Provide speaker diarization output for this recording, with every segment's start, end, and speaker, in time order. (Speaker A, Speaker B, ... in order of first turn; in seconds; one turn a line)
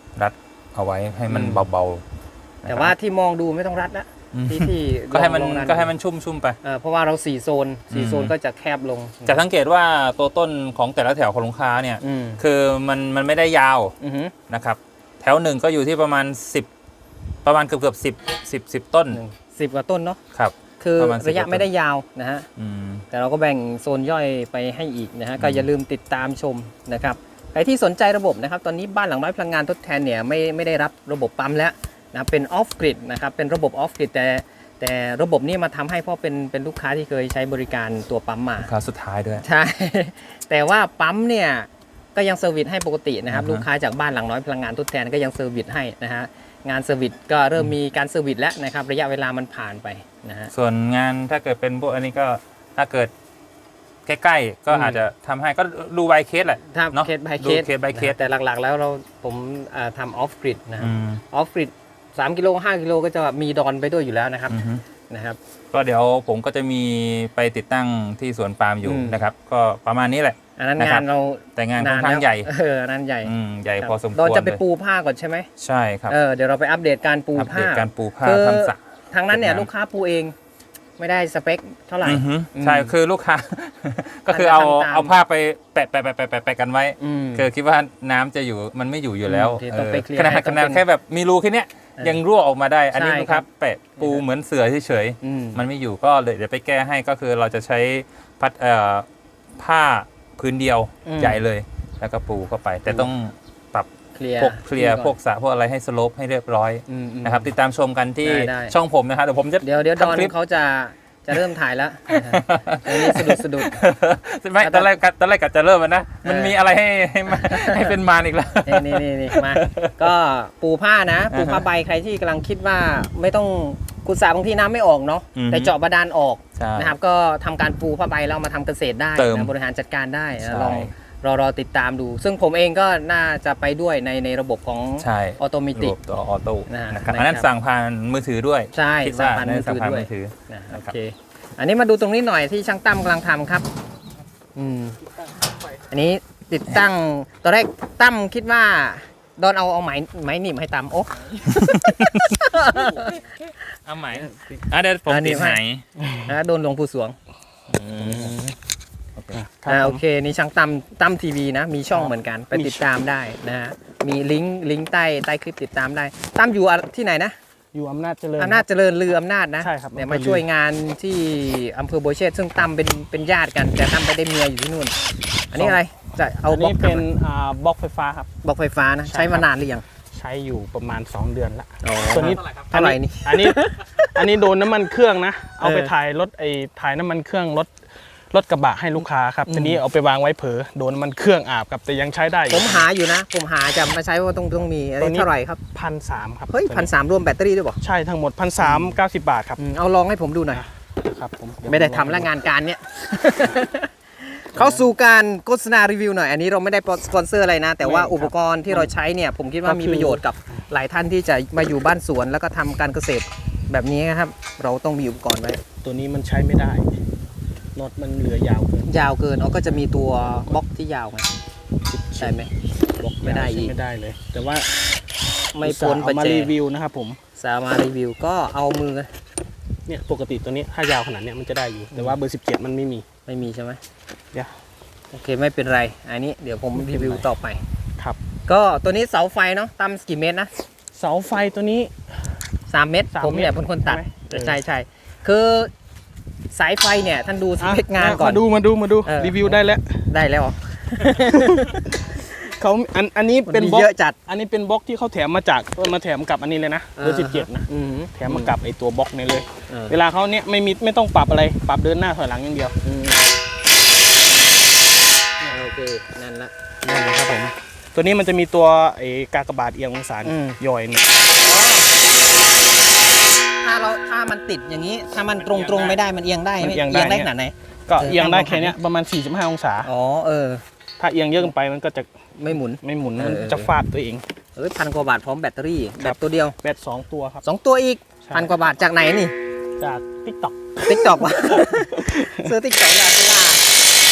Speaker A: 0.1-2.0
Speaker B: 1.3-1.6
Speaker A: 2.6-2.9
Speaker B: 2.7-5.9
Speaker A: 4.3-6.6
Speaker B: 6.6-9.4
Speaker A: 7.9-8.3
Speaker A: 9.2-13.9
Speaker B: 12.0-12.4
Speaker B: 14.0-14.3
Speaker A: 14.5-16.7
Speaker A: 17.4-19.2
Speaker B: 19.1-20.2
Speaker A: 20.3-21.7
Speaker B: 20.8-22.5
Speaker A: 22.6-23.1
Speaker B: 23.1-38.7
Speaker A: 25.4-25.7
Speaker A: 38.6-39.4
Speaker B: 39.4-50.5
Speaker A: 43.3-43.6
Speaker A: 50.5-53.1
Speaker A: 54.0-58.2
Speaker B: 54.7-55.0
Speaker B: 56.7-65.4
Speaker A: 60.8-61.2
Speaker A: 64.5-64.8
Speaker A: 65.7-72.5
Speaker B: 68.8-69.2
Speaker B: 70.6-75.5
Speaker A: 73.2-74.6
Speaker A: 75.6-76.2
Speaker B: 76.1-80.3
Speaker A: 77.3-78.8
Speaker A: 79.3-79.7
Speaker B: 81.0-82.9
Speaker A: 82.0-99.0
Speaker B: 84.3-85.1
Speaker B: 87.0-87.5
Speaker B: 89.2-90.8
Speaker B: 92.9-93.5
Speaker B: 94.0-94.2
Speaker B: 95.2-95.6
Speaker A: 99.6-110.3
Speaker B: 101.0-101.4
Speaker B: 104.1-105.2
Speaker B: 106.9-107.5
Speaker B: 108.2-108.7
Speaker B: 109.6-113.8
Speaker A: 112.1-120.1
Speaker B: 114.6-114.9
Speaker B: 116.2-116.5
Speaker B: 117.3-117.9
Speaker B: 118.7-135.9
Speaker A: 121.3-121.7
Speaker A: 125.3-125.7
Speaker A: 126.5-126.9
Speaker A: 129.2-129.5
Speaker A: 130.4-130.9
Speaker A: 135.0-140.9
Speaker B: 136.7-137.5
Speaker B: 138.7-143.7
Speaker B: 144.5-145.0
Speaker B: 145.8-153.2
Speaker A: 151.5-152.3
Speaker A: 153.8-155.8
Speaker C: 154.2-154.6
Speaker B: 155.1-155.6
Speaker C: 156.0-156.3
Speaker B: 156.1-157.2
Speaker A: 157.7-158.3
Speaker B: 158.0-158.4
Speaker C: 158.0-158.5
Speaker A: 159.2-159.4
Speaker C: 159.3-160.0
Speaker B: 159.7-167.3
Speaker C: 161.9-162.8
Speaker C: 167.7-168.6
Speaker B: 168.4-174.9
Speaker C: 169.6-170.4
Speaker B: 175.5-177.0
Speaker C: 176.5-178.3
Speaker B: 178.4-179.8
Speaker C: 179.1-179.5
Speaker C: 180.1-187.7
Speaker B: 181.8-184.2
Speaker B: 185.6-185.9
Speaker C: 188.3-192.8
Speaker B: 189.4-189.8
Speaker B: 192.5-195.6
Speaker C: 195.0-196.9
Speaker B: 196.5-197.8
Speaker C: 197.8-199.6
Speaker B: 198.6-199.0
Speaker B: 199.6-200.6
Speaker C: 200.5-202.3
Speaker B: 201.7-215.6
Speaker C: 204.6-204.8
Speaker C: 207.8-208.9
Speaker C: 209.6-210.2
Speaker C: 215.8-216.9
Speaker C: 217.7-219.0
Speaker B: 218.9-221.3
Speaker C: 221.9-222.3
Speaker B: 222.2-222.5
Speaker C: 223.0-224.7
Speaker B: 223.2-223.7
Speaker B: 225.5-226.5
Speaker C: 225.6-227.2
Speaker B: 227.3-229.1
Speaker C: 229.9-233.0
Speaker B: 231.9-232.2
Speaker B: 233.2-233.8
Speaker B: 235.1-237.6
Speaker C: 236.7-237.2
Speaker B: 238.4-240.5
Speaker C: 240.9-241.9
Speaker B: 242.7-245.7
Speaker C: 243.1-244.6
Speaker B: 246.5-248.4
Speaker C: 247.6-250.0
Speaker B: 249.0-251.8
Speaker C: 251.0-263.2
Speaker B: 253.5-254.2
Speaker B: 256.9-258.5
Speaker B: 259.7-260.0
Speaker B: 265.5-266.5
Speaker C: 266.8-271.1
Speaker B: 270.2-270.6
Speaker B: 271.4-271.9
Speaker B: 273.6-278.8
Speaker C: 275.4-276.0
Speaker C: 276.6-277.3
Speaker C: 277.9-279.9
Speaker B: 279.8-280.6
Speaker C: 281.0-282.1
Speaker B: 282.4-283.7
Speaker C: 282.8-284.2
Speaker B: 284.6-286.6
Speaker C: 286.0-287.4
Speaker B: 287.4-289.3
Speaker C: 288.2-288.5
Speaker C: 289.8-292.5
Speaker B: 290.9-293.6